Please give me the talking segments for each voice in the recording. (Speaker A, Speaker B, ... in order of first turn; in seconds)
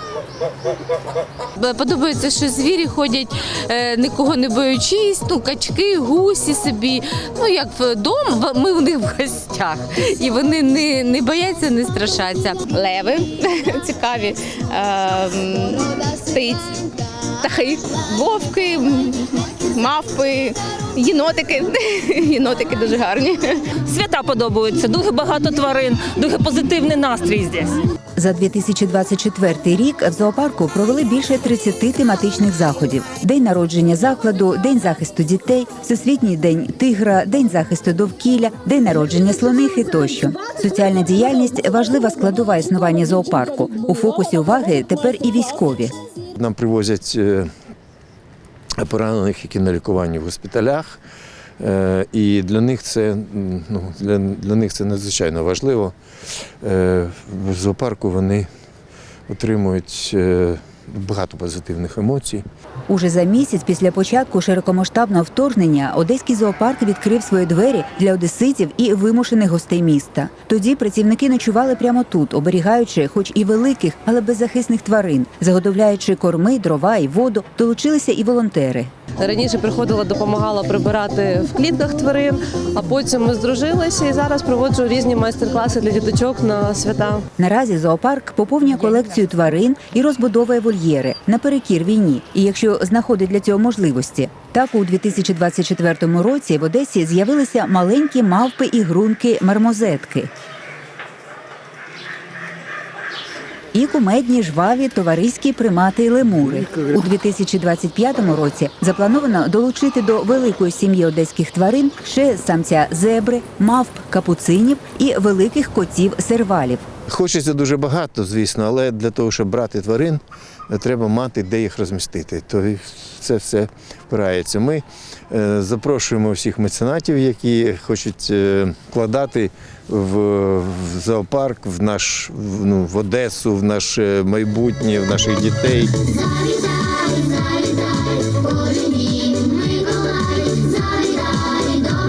Speaker A: 1.6-12.6
Speaker B: 12.7-23.7
Speaker C: 23.8-27.8
Speaker D: 28.2-45.9, 62.9-78.9, 87.4-100.3, 103.7-116.8
Speaker E: 46.4-47.5, 48.8-51.0, 51.6-56.0, 56.6-58.5, 59.3-62.4, 117.1-136.2
Speaker F: 79.2-87.2